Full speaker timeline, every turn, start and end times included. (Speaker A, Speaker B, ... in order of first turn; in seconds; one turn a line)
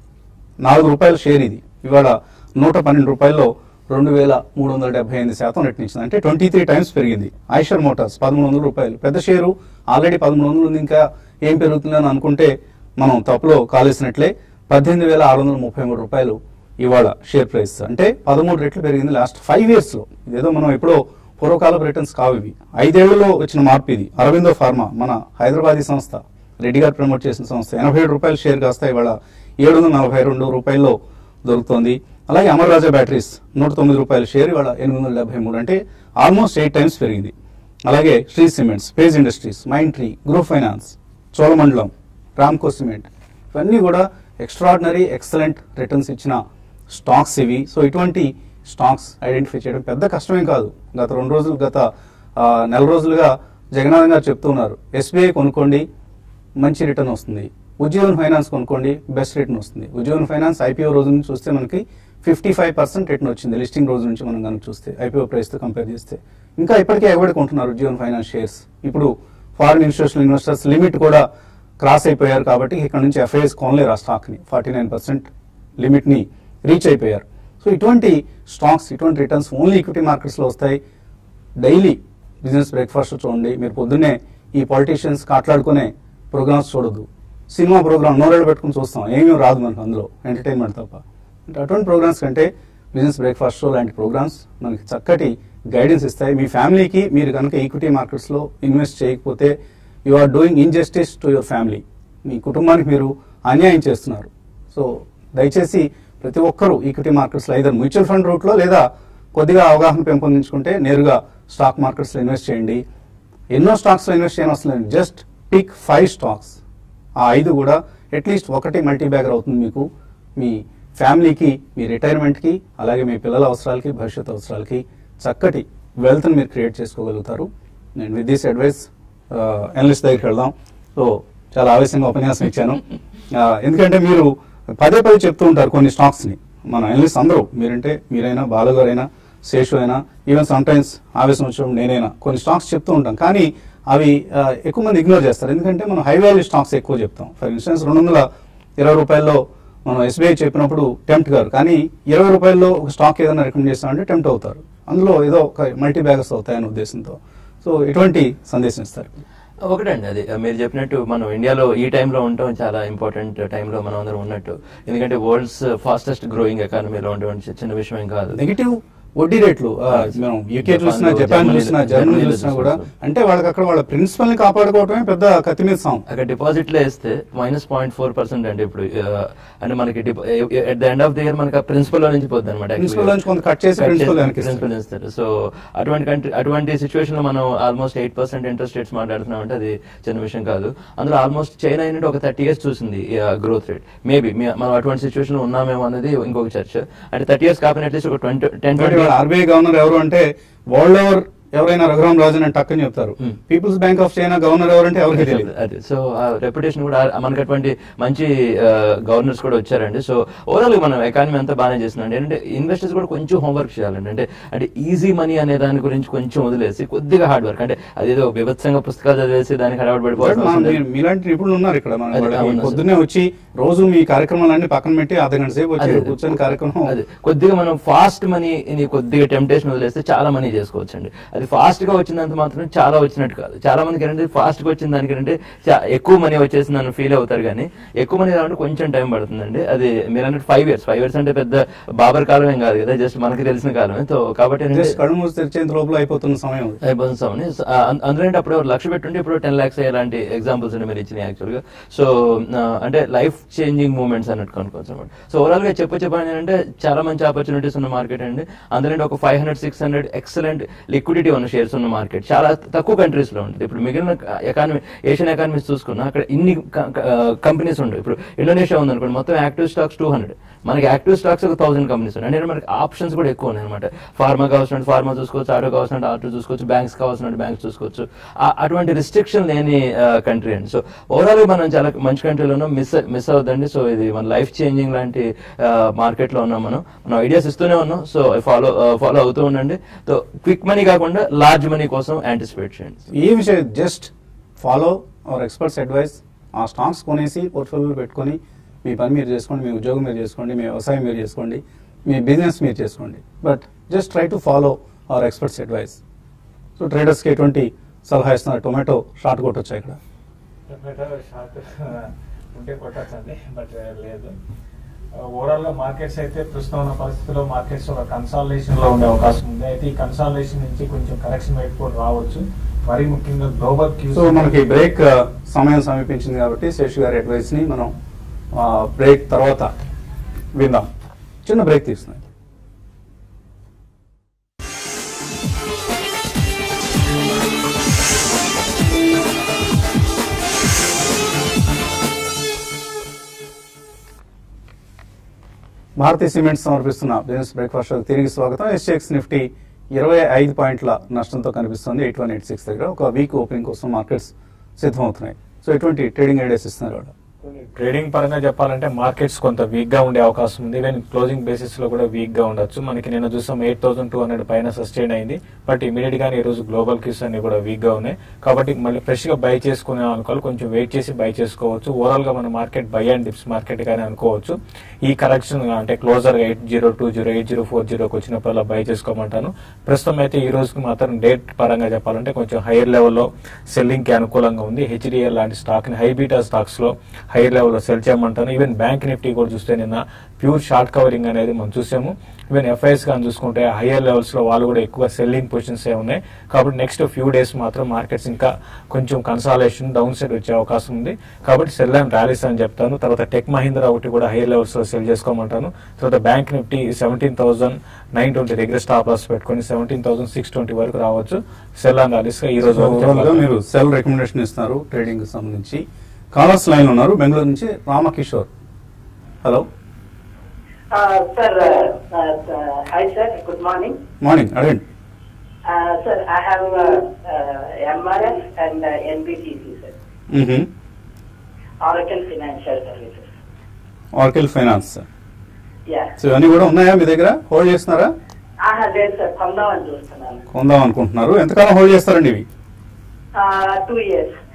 Speaker A: 0.6-37.3
Speaker A: 37.9-46.4
Speaker A: 46.9-51.9
Speaker A: 52.4-55.9
Speaker A: 56.6-71.2
Speaker A: 71.8-80.8
Speaker A: 81.6-99.5
Speaker A: 100.1-112.8
Speaker A: 113.5-116.6
Speaker A: 117.2-119.9
Speaker A: 120.4-127.5
Speaker A: 128.0-148.3
Speaker A: 148.8-159.1
Speaker B: 159.6-168.4
Speaker A: 168.3-176.0
Speaker B: 169.9-172.9
Speaker B: 176.1-183.2
Speaker A: 182.8-184.6
Speaker B: 183.8-199.2
Speaker A: 198.8-205.5
Speaker B: 205.1-220.8
Speaker A: 220.2-226.9
Speaker B: 222.1-222.8
Speaker B: 225.8-245.0
Speaker A: 244.7-246.8
Speaker B: 246.8-293.1
Speaker A: 293.1-306.0
Speaker A: 306.8-310.0
Speaker C: 310.7-314.3
Speaker C: 315.3-324.8
Speaker A: 324.1-327.9
Speaker A: 328.5-329.7
Speaker A: 330.5-330.9
Speaker A: 331.4-332.2
Speaker A: 346.0-357.1
Speaker C: 357.8-413.5
Speaker A: 412.6-415.8
Speaker A: 416.3-418.5
Speaker D: 420.9-424.0
Speaker A: 424.2-424.8
Speaker D: 425.7-429.9
Speaker A: 430.3-430.7
Speaker D: 431.8-433.3
Speaker A: 434.1-435.1
Speaker D: 435.9-436.1
Speaker A: 436.2-438.1
Speaker D: 438.6-440.4
Speaker A: 440.5-442.4
Speaker D: 443.4-444.3